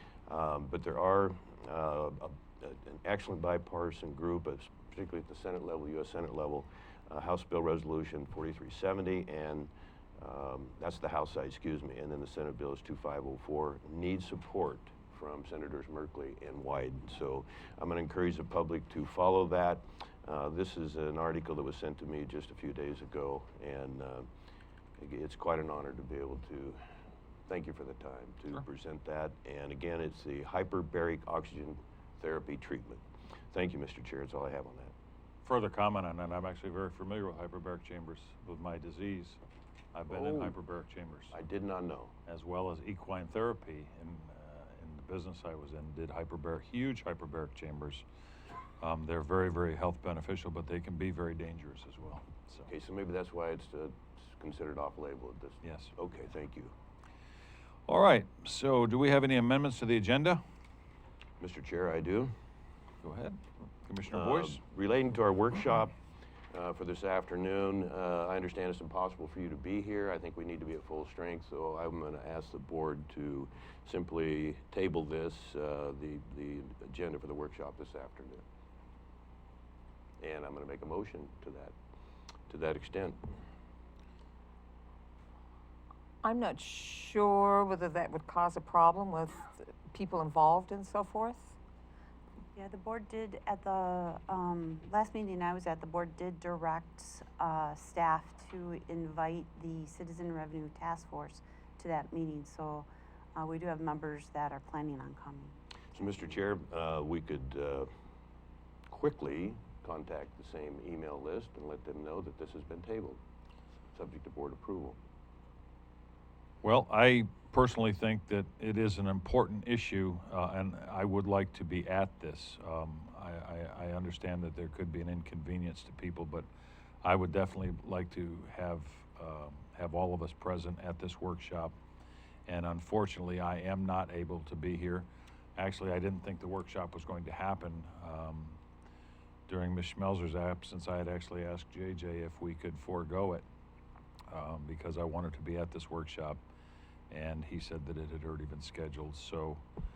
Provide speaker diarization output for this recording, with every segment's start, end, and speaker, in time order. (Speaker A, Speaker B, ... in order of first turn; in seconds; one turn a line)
Speaker A: 0.3-24.3
Speaker A: 25.0-26.8
Speaker A: 27.5-34.9
Speaker B: 35.4-39.4
Speaker B: 39.9-41.4
Speaker A: 40.1-40.5
Speaker A: 41.3-42.1
Speaker B: 42.3-48.0
Speaker B: 48.8-52.7
Speaker A: 52.7-56.7
Speaker B: 55.6-55.9
Speaker B: 57.9-60.4
Speaker A: 61.4-62.3
Speaker B: 63.0-64.6
Speaker A: 64.1-66.0
Speaker A: 66.5-78.4
Speaker A: 80.2-81.7
Speaker A: 82.5-83.2
Speaker C: 86.2-91.6
Speaker D: 92.5-106.1
Speaker A: 105.9-107.9
Speaker A: 108.9-113.2
Speaker A: 113.9-115.0
Speaker B: 116.6-126.5
Speaker B: 127.0-131.7
Speaker B: 132.4-138.6
Speaker B: 139.5-143.4
Speaker B: 144.3-146.4
Speaker B: 147.1-149.6